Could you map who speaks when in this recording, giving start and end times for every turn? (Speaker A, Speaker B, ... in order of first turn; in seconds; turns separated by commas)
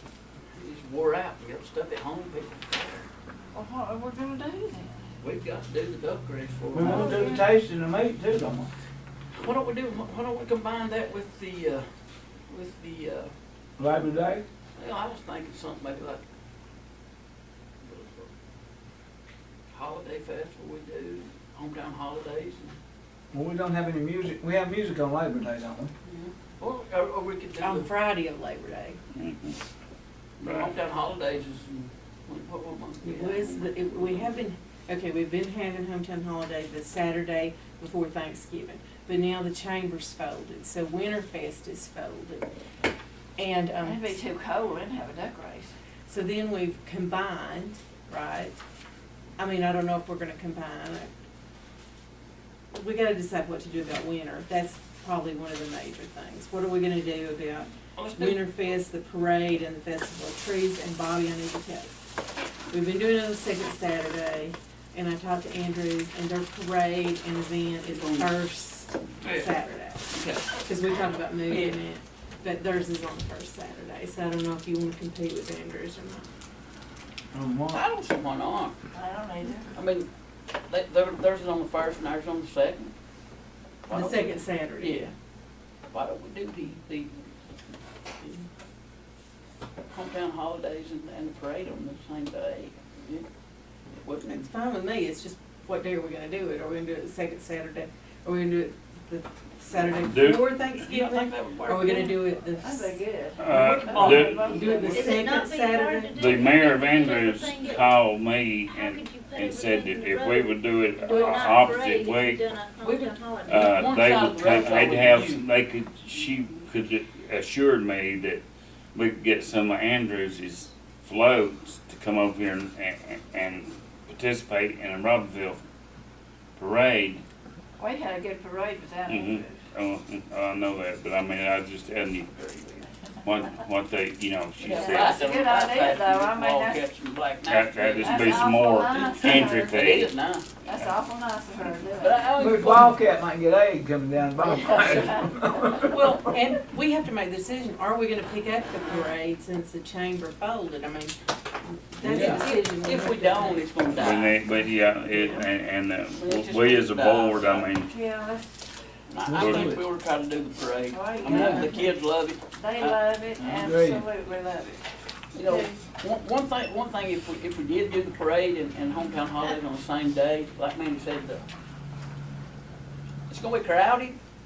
Speaker A: 0.5-3.1, Speaker B: 3.5-4.9, Speaker A: 5.2-7.1, Speaker C: 6.7-8.7, Speaker B: 6.8-7.5, Speaker A: 9.3-11.8, Speaker A: 12.5-13.3, Speaker C: 13.8-14.4, Speaker A: 14.8-16.2, Speaker A: 17.8-18.3, Speaker A: 19.7-22.7, Speaker C: 23.3-25.9, Speaker A: 26.0-27.9, Speaker D: 27.6-29.0, Speaker E: 29.1-29.6, Speaker A: 30.4-34.2, Speaker E: 30.4-30.7, Speaker D: 33.0-42.5, Speaker D: 43.4-44.1, Speaker B: 43.8-45.7, Speaker D: 46.1-48.6, Speaker D: 49.4-51.1, Speaker D: 52.7-62.0, Speaker A: 58.0-58.5, Speaker D: 62.7-70.1, Speaker A: 67.8-68.5, Speaker A: 69.2-69.5, Speaker A: 70.1-70.5, Speaker D: 70.6-76.3, Speaker A: 71.5-71.8, Speaker C: 77.3-77.8, Speaker A: 77.7-78.8, Speaker B: 78.9-79.7, Speaker A: 79.7-80.1, Speaker A: 80.7-82.9, Speaker A: 83.9-85.1, Speaker D: 83.9-85.1, Speaker A: 85.9-87.1, Speaker A: 89.9-93.2, Speaker A: 94.0-94.5, Speaker D: 94.3-103.0, Speaker E: 99.9-100.5, Speaker A: 100.7-102.3, Speaker B: 102.6-105.3, Speaker E: 103.4-104.5, Speaker A: 103.5-104.7, Speaker D: 104.0-106.3, Speaker F: 104.9-107.9, Speaker E: 106.1-112.4, Speaker F: 108.7-113.9, Speaker A: 112.8-115.4, Speaker E: 113.5-118.4, Speaker E: 118.9-125.6, Speaker E: 126.6-127.2, Speaker B: 127.8-129.7, Speaker E: 129.1-132.3, Speaker A: 132.4-132.8, Speaker E: 133.2-135.2, Speaker A: 134.6-140.9, Speaker B: 134.7-136.8, Speaker E: 137.5-140.1, Speaker B: 138.0-139.8, Speaker B: 140.6-142.3, Speaker A: 141.8-143.2, Speaker C: 142.3-145.9, Speaker B: 144.5-145.8, Speaker A: 144.7-145.3, Speaker D: 145.8-153.7, Speaker C: 152.0-152.5, Speaker A: 152.0-154.5, Speaker E: 153.9-157.9, Speaker A: 155.1-155.5, Speaker A: 156.2-157.7, Speaker B: 157.8-158.6, Speaker A: 159.1-163.0, Speaker C: 159.2-159.8, Speaker E: 159.3-159.8, Speaker B: 160.9-161.9, Speaker D: 161.3-161.6, Speaker B: 162.5-164.8, Speaker C: 163.4-164.1, Speaker A: 165.3-171.4, Speaker B: 165.4-165.8, Speaker A: 173.3-174.2